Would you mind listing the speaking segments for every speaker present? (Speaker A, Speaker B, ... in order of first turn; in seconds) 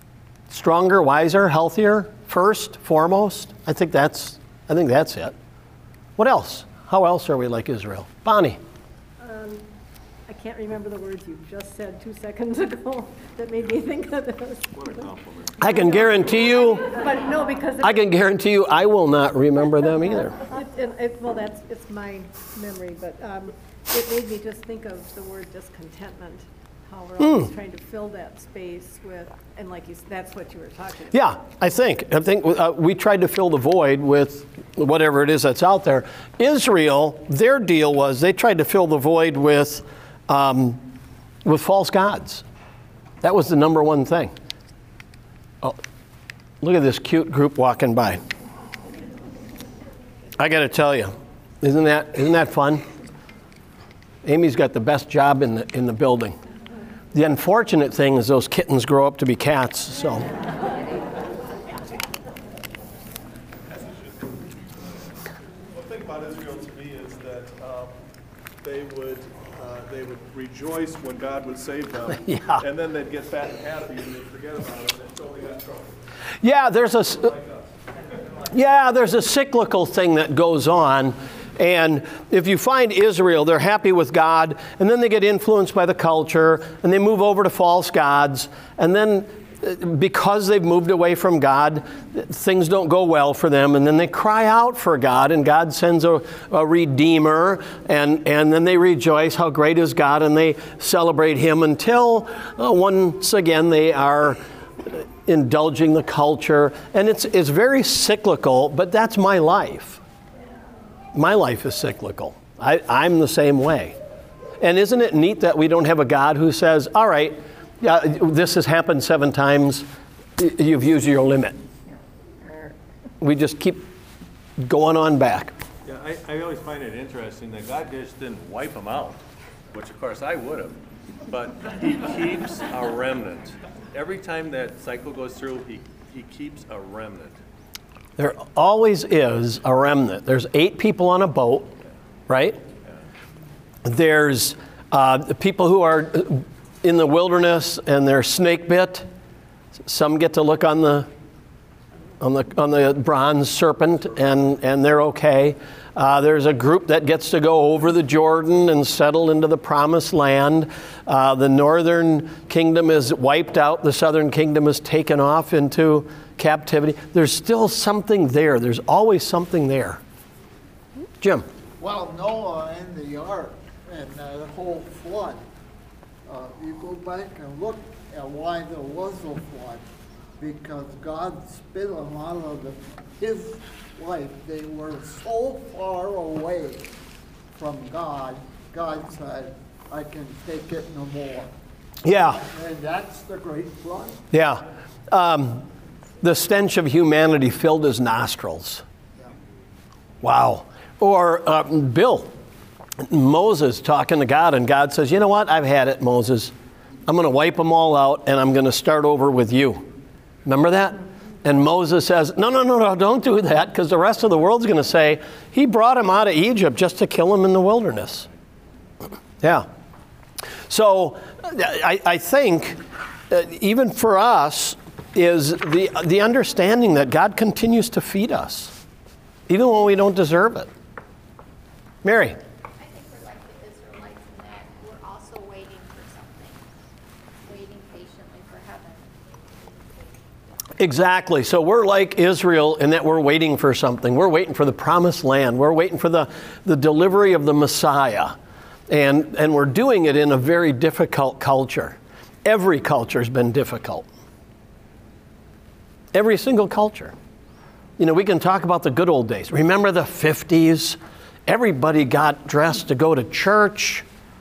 Speaker A: 0.5-5.3, 6.2-8.6, 15.6-16.9, 17.8-20.4, 27.2-27.5, 31.1-40.8, 41.5-42.4, 43.2-44.3, 46.6-48.2, 50.4-52.8, 54.2-56.4, 57.1-60.3, 72.2-72.6, 76.4-77.3, 78.5-110.0, 111.1-114.0, 114.6-119.9, 120.4-121.6, 123.2-123.9, 124.6-125.5, 138.2-141.7, 142.3-142.6, 143.8-149.1, 149.9-151.1, 152.2-170.0, 171.2-171.5, 192.0-192.4, 194.3-195.7, 196.2-198.8, 200.2-202.3, 203.0-206.5, 207.1-209.9, 210.5-218.3, 220.7-228.8, 229.5-230.7, 232.0-232.4, 240.8-248.4, 248.9-254.1, 256.1-257.1, 258.0-264.0
Speaker B: 9.2-9.7, 10.3-15.1, 15.6-18.2, 20.1-31.3
Speaker C: 14.7-16.5, 125.8-129.2, 129.7-137.4
Speaker D: 63.7-64.9, 65.7-68.0, 68.6-76.0, 77.2-77.6
Speaker E: 171.8-175.4, 176.3-179.8, 180.4-186.9, 187.6-191.5, 192.4-194.2
Speaker F: 232.8-236.6, 237.4-239.1